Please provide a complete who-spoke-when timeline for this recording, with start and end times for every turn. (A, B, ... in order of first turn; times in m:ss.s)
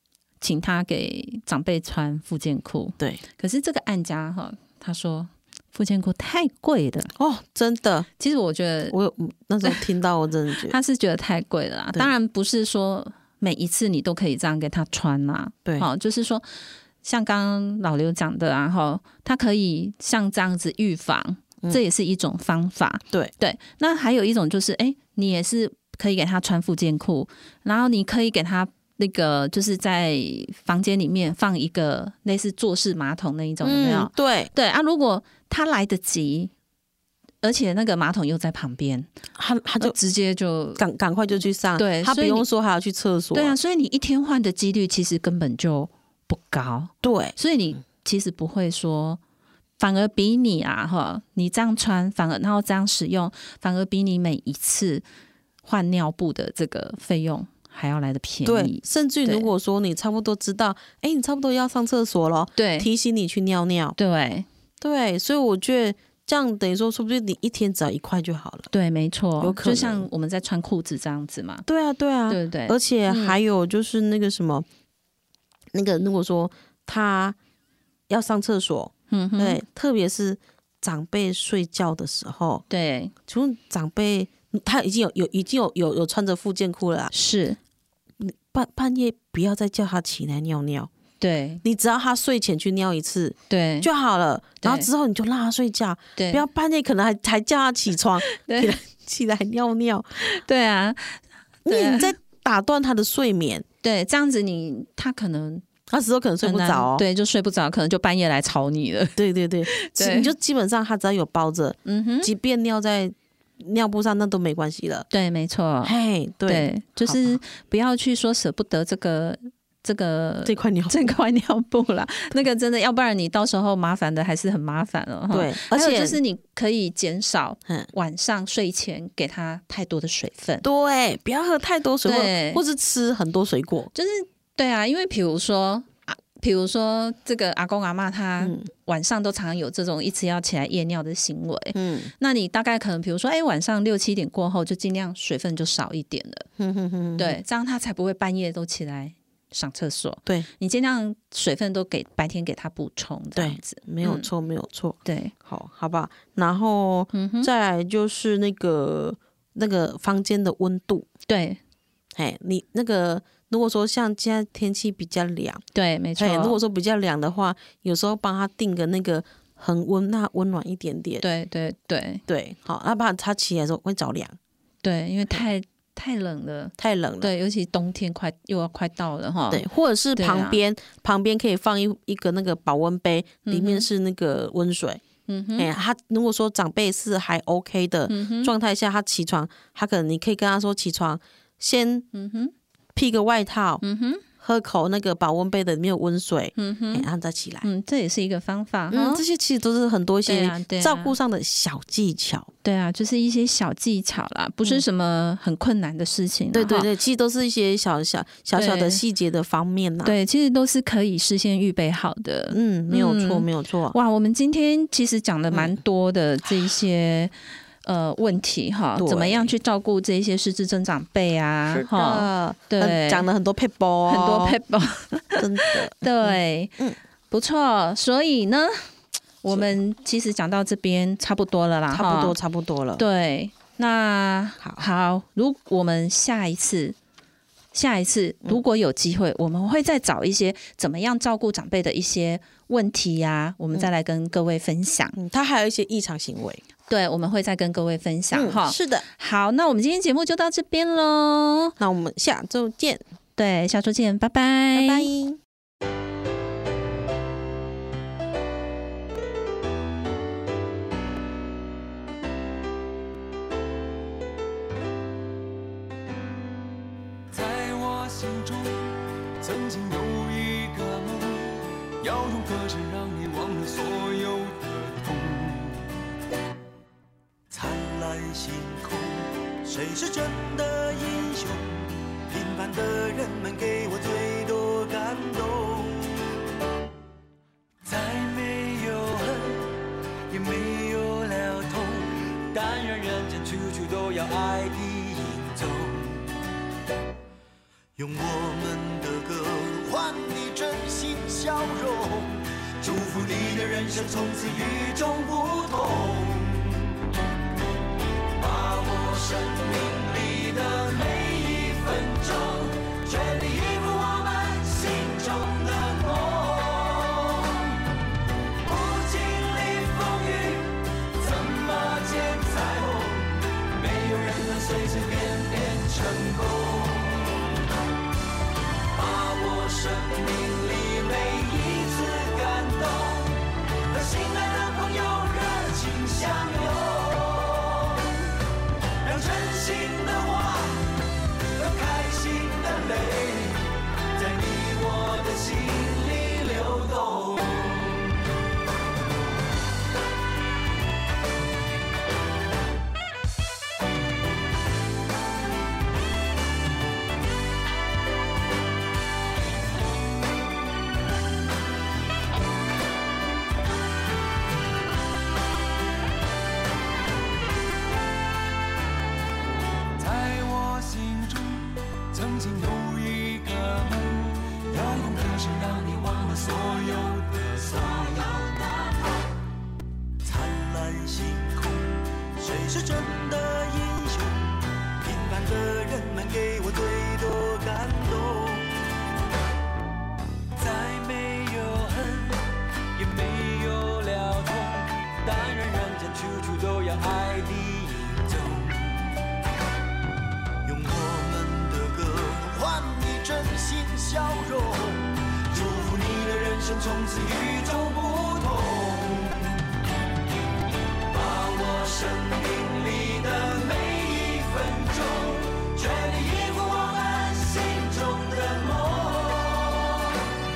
0:00.4-0:07.1 A
0:07.2-0:08.1 B
0:08.2-0:09.0 A
0:08.9-0:10.7 B
0:10.5-0:16.4 A
0:17.0-0:36.5 A
0:33.6-0:34.5 B
0:37.4-0:39.1 A
0:39.4-0:40.0 B
0:39.8-0:40.8 A
0:40.8-0:43.6 B
0:41.8-0:42.4 A
0:43.3-0:49.2 A
0:47.0-0:47.3 B
0:49.8-0:55.0 A
0:55.6-0:59.5 A
0:58.4-1:04.0 B
1:02.6-1:02.9 A
1:04.0-1:04.4 A
1:04.8-1:08.7 B
1:08.7-1:11.6 A
1:09.4-1:10.0 B
1:11.7-1:14.6 B
1:12.3-1:13.4 A
1:15.7-1:17.4 B
1:18.1-1:22.6 B
1:19.1-1:19.6 A
1:22.7-1:23.1 A
1:23.3-1:27.1 B
1:27.1-1:27.6 A
1:28.2-1:30.9 B
1:31.2-1:31.6 A
1:31.6-1:40.2 B
1:33.5-1:33.9 A
1:34.6-1:34.9 A
1:36.2-1:36.4 A
1:38.3-1:38.7 A
1:40.2-1:42.1 A
1:41.6-1:43.6 B
1:43.8-1:45.6 A
1:45.9-1:47.0 B
1:46.4-1:50.3 A
1:49.2-1:55.1 B
1:51.8-1:52.3 A
1:55.1-1:55.9 A
1:55.8-1:57.4 B
1:56.5-2:10.6 A
2:00.4-2:01.1 B
2:05.3-2:06.2 B
2:10.6-2:13.9 B
2:12.0-2:12.6 A
2:13.9-2:26.5 A
2:18.4-2:18.7 B
2:21.7-2:22.1 B
2:26.6-2:27.4 B
2:27.2-2:34.3 A
2:33.4-2:41.1 B
2:35.0-2:35.3 A
2:37.1-2:37.5 A
2:41.3-2:41.6 A
2:42.1-2:45.6 B
2:45.7-2:46.6 A
2:46.2-2:51.2 B
2:51.2-2:52.2 A
2:52.3-2:54.4 B
2:54.8-2:59.6 A
2:56.8-2:57.3 B
2:59.5-3:05.0 B
3:00.2-3:00.6 A
3:03.4-3:03.9 A
3:05.3-3:05.7 A
3:05.6-3:12.1 B
3:08.1-3:08.5 A
3:12.1-3:12.5 A
3:12.9-3:13.8 B
3:13.8-3:14.2 A
3:14.4-3:17.7 B
3:16.6-3:17.1 A
3:17.6-3:19.2 A
3:18.9-3:22.5 B
3:20.2-3:21.1 A
3:22.6-3:26.9 A
3:26.5-3:30.2 B
3:28.5-3:29.0 A
3:30.0-3:37.3 A
3:32.5-3:34.0 B
3:35.5-3:35.8 B
3:37.8-3:43.3 A
3:39.0-3:39.5 B
3:41.7-3:44.6 B
3:44.1-3:46.8 A
3:45.4-3:47.0 B
3:47.3-3:48.8 A
3:49.4-3:52.3 A
3:49.5-3:49.7 B
3:51.9-3:53.0 B
3:53.0-3:57.0 A
3:57.7-4:05.2 A
4:05.2-4:06.6 B
4:06.9-4:11.7 A
4:08.3-4:09.0 B
4:11.8-4:13.0 B
4:13.4-4:15.1 A
4:14.7-4:15.4 B
4:27.3-4:35.8 C
4:37.5-4:46.1 C
4:47.8-4:49.7 C
4:50.3-4:56.2 C
4:58.0-5:06.8 C
5:08.3-5:17.7 C
5:18.6-5:27.4 C
5:28.9-5:38.1 C
5:39.0-5:41.0 C
5:41.5-5:48.0 C
6:10.0-6:19.2 C
6:20.2-6:28.7 C
6:30.6-6:32.4 C
6:32.9-6:39.1 C
6:40.6-6:49.5 C
6:51.1-7:00.1 C